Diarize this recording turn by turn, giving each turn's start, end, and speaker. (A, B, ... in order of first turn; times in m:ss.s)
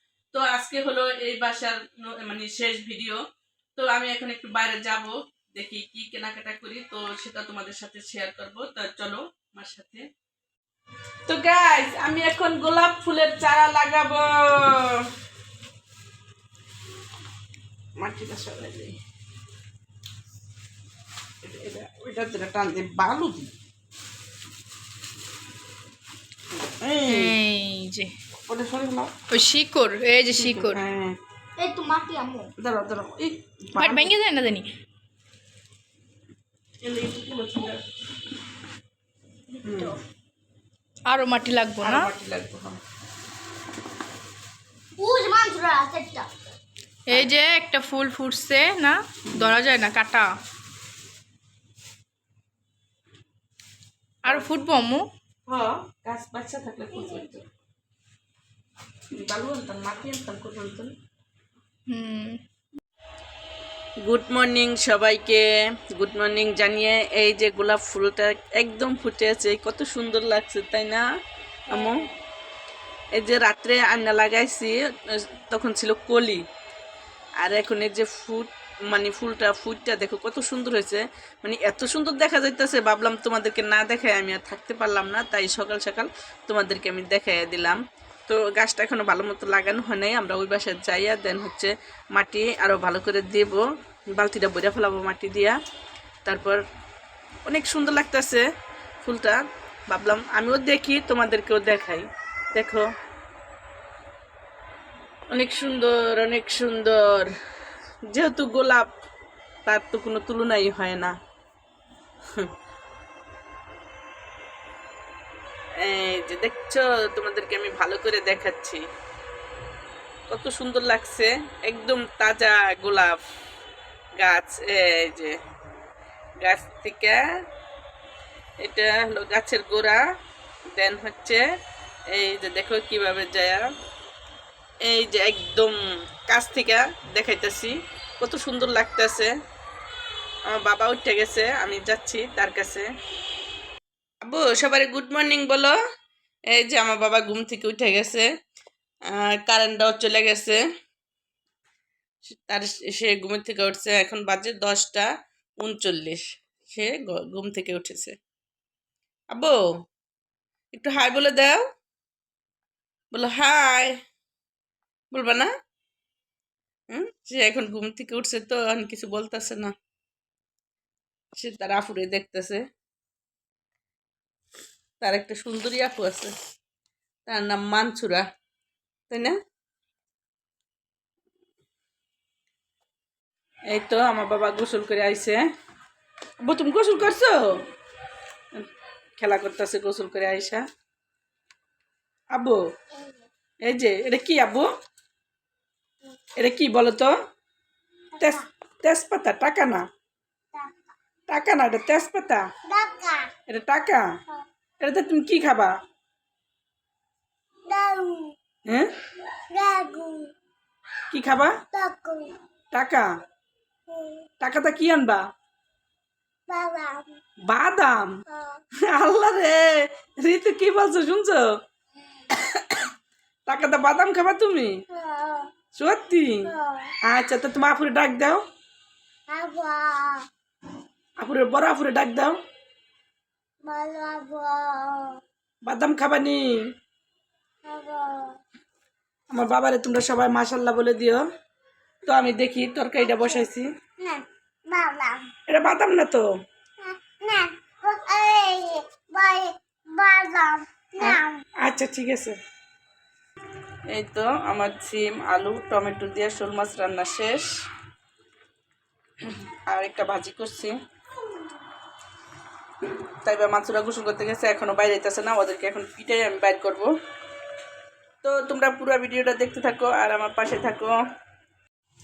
0:00.3-0:03.2 A
0:03.8-0:10.1 A
0:11.3-0:15.1 A
0:18.0-0:19.0 A
0:21.4-0:23.5 A
0:26.8-0:27.4 A
0:27.1-0:28.1 B
0:28.5-0:29.1 A
0:29.3-0:30.8 B
0:30.3-0:31.2 A
0:31.6-0:32.5 C
0:32.6-0:34.1 A
0:33.8-0:34.7 B
0:36.8-0:37.8 A
0:39.6-0:40.0 A
0:39.6-0:40.0 C
0:41.1-0:42.1 B
0:41.8-0:42.8 A
0:45.0-0:46.3 C
0:47.1-0:50.3 B
0:54.2-0:55.0 B
0:55.5-0:57.4 A
0:59.1-1:00.9 A
1:01.9-1:02.4 B
1:04.0-1:11.0 A
1:11.7-1:12.1 A
1:13.2-1:16.4 A
1:17.4-1:35.6 A
1:36.2-1:36.6 A
1:37.4-1:38.5 A
1:39.0-1:42.9 A
1:45.3-1:47.3 A
1:48.1-1:48.9 A
1:49.7-1:51.2 A
1:55.8-1:58.8 A
2:00.3-2:03.2 A
2:04.2-2:05.4 A
2:06.4-2:07.2 A
2:08.6-2:10.0 A
2:10.7-2:11.4 A
2:12.1-2:13.7 A
2:14.8-2:19.3 A
2:20.5-2:22.9 A
2:24.2-2:25.8 A
2:26.5-2:28.3 A
2:29.1-2:30.6 A
2:32.2-2:38.2 A
2:39.3-2:39.7 A
2:40.7-2:41.6 A
2:43.1-2:44.0 A
2:45.1-2:45.5 A
2:46.9-2:49.7 A
2:51.4-2:52.7 A
2:55.0-2:56.3 A
2:57.3-2:58.2 A
2:59.1-2:59.4 A
3:03.7-3:05.4 A
3:06.4-3:07.6 A
3:09.2-3:10.6 A
3:12.3-3:12.6 A
3:13.0-3:13.2 C
3:13.6-3:14.7 A
3:16.4-3:17.1 A
3:18.2-3:19.9 A
3:21.3-3:22.5 A
3:22.7-3:23.3 C
3:23.5-3:24.0 A
3:24.8-3:25.8 A
3:27.7-3:28.4 C
3:29.5-3:30.3 C
3:31.1-3:31.6 A
3:31.7-3:32.4 C
3:32.7-3:33.1 A
3:33.9-3:34.2 C
3:34.4-3:35.2 A
3:36.5-3:37.2 C
3:37.5-3:38.2 A
3:38.3-3:38.6 C
3:38.9-3:41.6 A
3:42.3-3:42.9 A
3:43.5-3:44.8 A
3:44.9-3:45.5 C
3:45.7-3:48.4 A
3:46.5-3:46.9 C
3:49.3-3:50.3 C
3:51.2-3:52.4 A
3:53.6-3:55.2 C
3:55.6-3:56.4 A
3:57.6-3:58.4 C
3:59.3-4:01.2 A
4:02.1-4:03.7 A
4:03.1-4:03.4 C
4:04.0-4:05.3 C
4:05.5-4:06.2 A
4:06.8-4:11.3 C
4:11.0-4:12.4 A
4:13.9-4:17.5 A
4:19.2-4:20.8 A
4:23.2-4:26.9 A
4:28.2-4:31.0 A